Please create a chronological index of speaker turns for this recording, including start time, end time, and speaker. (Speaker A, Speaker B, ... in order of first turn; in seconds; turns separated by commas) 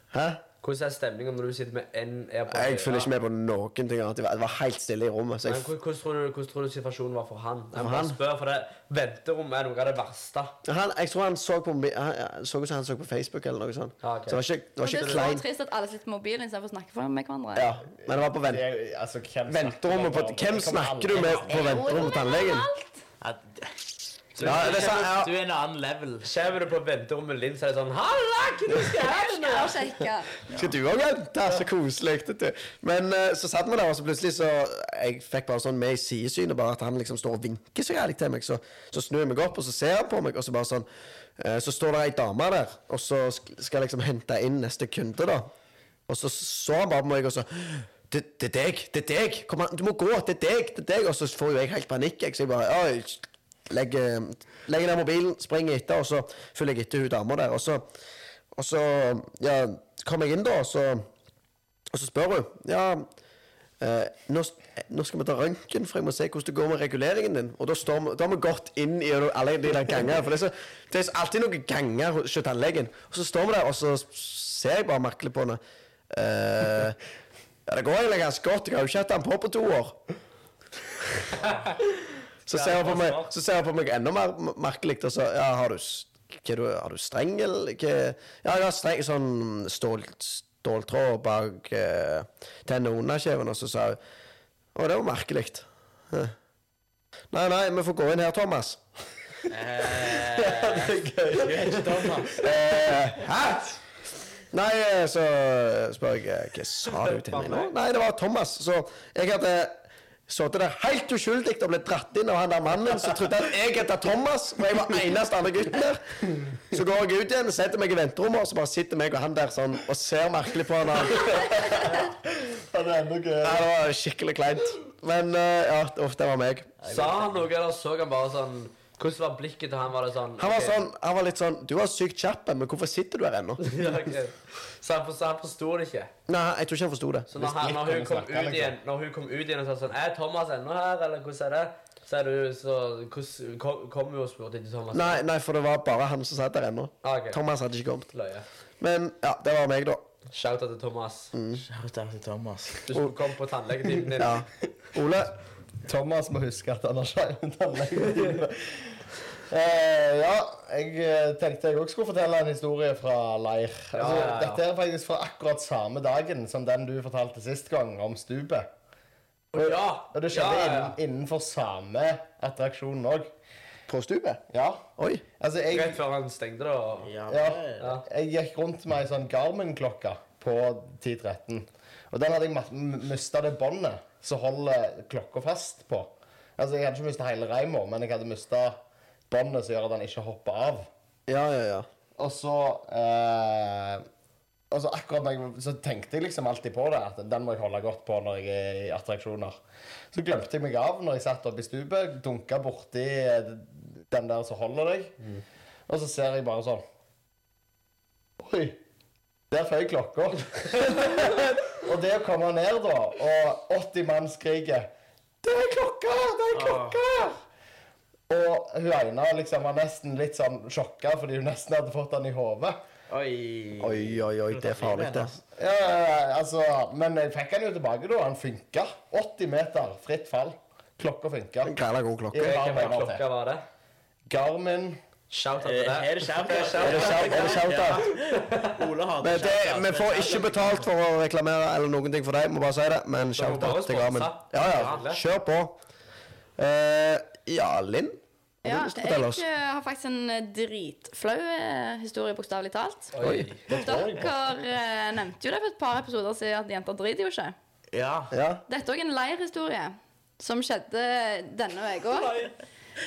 Speaker A: 0.1-0.4, Speaker B: 0.6-3.1, Speaker A: 2.5-5.7, Speaker B: 5.5-10.6, Speaker A: 7.8-8.2, Speaker A: 10.6-15.4, Speaker B: 14.0-14.4, Speaker C: 14.8-17.7, Speaker B: 15.0-15.3, Speaker A: 17.6-18.7, Speaker D: 18.1-21.7, Speaker A: 19.5-22.7, Speaker E: 21.1-21.9, Speaker C: 21.4-23.0, Speaker E: 23.2-23.8, Speaker E: 24.3-26.3, Speaker B: 24.4-25.1, Speaker A: 24.4-25.3, Speaker B: 26.2-29.9, Speaker C: 28.8-30.4, Speaker A: 30.5-40.9, Speaker A: 41.4-45.5, Speaker A: 46.1-57.9, Speaker A: 58.5-61.1, Speaker A: 61.9-63.1, Speaker A: 63.8-75.6, Speaker A: 76.1-77.0, Speaker A: 77.7-80.0, Speaker B: 81.4-81.8, Speaker A: 82.5-94.0, Speaker B: 82.5-83.3, Speaker A: 94.8-96.3, Speaker A: 97.3-98.8, Speaker E: 99.5-102.5, Speaker D: 100.3-102.5, Speaker A: 102.4-103.8, Speaker A: 104.5-116.0, Speaker B: 107.0-107.7, Speaker A: 116.7-121.8, Speaker D: 121.3-123.7, Speaker A: 123.4-126.7, Speaker E: 126.8-127.5, Speaker B: 126.9-130.8, Speaker A: 130.4-134.0, Speaker B: 133.6-136.1, Speaker A: 136.3-137.3, Speaker B: 137.3-145.2, Speaker D: 137.3-138.8, Speaker A: 144.9-148.1, Speaker B: 147.0-147.4, Speaker B: 148.1-148.4, Speaker A: 148.8-150.1, Speaker B: 150.3-151.3, Speaker A: 151.3-151.7, Speaker E: 151.7-152.8, Speaker B: 152.9-154.4, Speaker A: 154.2-155.3, Speaker D: 155.8-159.0, Speaker D: 159.5-168.7, Speaker B: 163.9-164.6, Speaker B: 169.5-171.0, Speaker D: 169.6-173.3, Speaker A: 173.9-174.4, Speaker D: 174.5-174.8, Speaker A: 175.0-175.2, Speaker D: 175.4-176.0, Speaker B: 175.7-177.1, Speaker E: 177.0-178.0, Speaker D: 177.3-188.8, Speaker B: 177.8-178.1, Speaker D: 189.3-190.9, Speaker A: 191.3-191.9, Speaker D: 192.2-194.1, Speaker D: 194.7-199.6, Speaker D: 200.1-205.2, Speaker D: 205.9-206.8, Speaker D: 208.4-208.8, Speaker D: 209.5-214.9, Speaker D: 215.4-217.4, Speaker E: 216.5-217.0, Speaker D: 218.3-222.8, Speaker E: 223.1-225.4, Speaker A: 223.8-225.4, Speaker D: 225.6-231.7, Speaker A: 231.6-232.8, Speaker D: 232.3-233.2, Speaker B: 232.4-233.7, Speaker D: 234.3-235.0, Speaker B: 235.3-238.8, Speaker E: 235.6-240.9, Speaker A: 236.8-238.0, Speaker A: 239.2-245.8, Speaker B: 243.2-245.2, Speaker A: 246.6-249.4, Speaker C: 248.6-253.1, Speaker B: 253.1-253.7, Speaker A: 253.2-254.0, Speaker C: 253.7-257.6, Speaker D: 253.8-254.2, Speaker E: 257.9-258.3, Speaker A: 258.3-258.6, Speaker C: 258.7-262.5, Speaker B: 262.2-262.5